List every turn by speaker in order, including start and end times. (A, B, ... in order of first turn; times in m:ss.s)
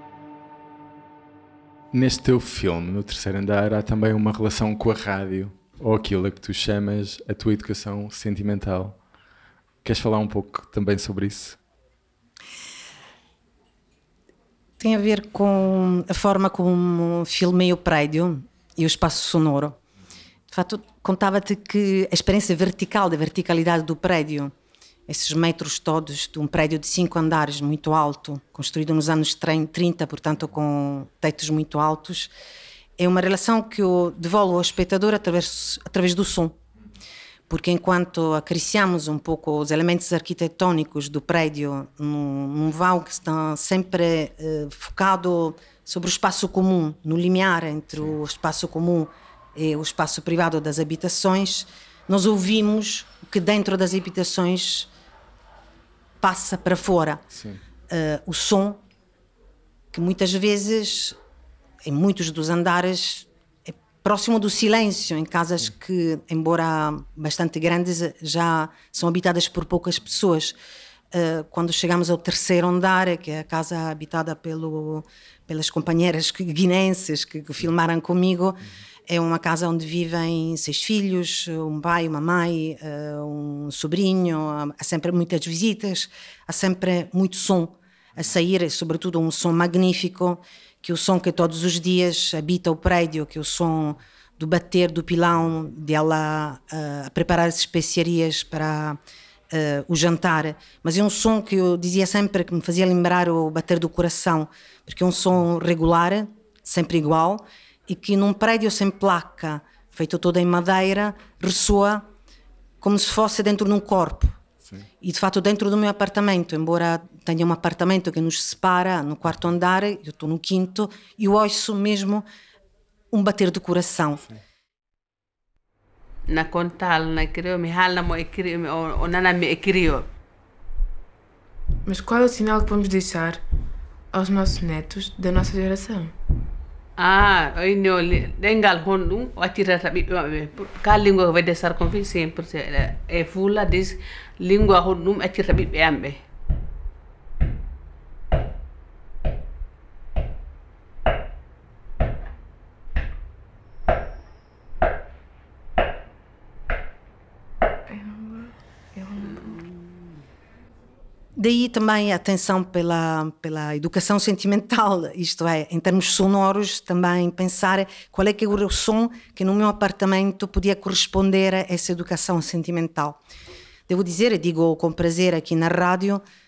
0:01.9-0:09.0 A
0:09.8-0:11.6 A
0:14.8-0:19.8 B
0:20.5-0:24.5 B
0:25.1-0:32.3 B
0:33.0-0:36.6 B
0:37.5-0:54.9 B
0:56.2-0:57.2 B
0:57.9-0:58.8 B
0:59.9-1:01.2 B
1:01.8-1:10.5 B
1:11.1-1:39.0 B
1:39.5-1:52.1 B
1:52.8-1:54.4 B
1:55.0-2:02.2 B
2:03.1-2:04.2 B
2:06.3-2:10.1 C
2:11.8-2:13.4 D
2:14.1-2:16.2 D
2:17.0-2:26.2 C
2:37.9-2:39.5 D
2:41.4-2:53.2 B
2:53.9-2:56.2 B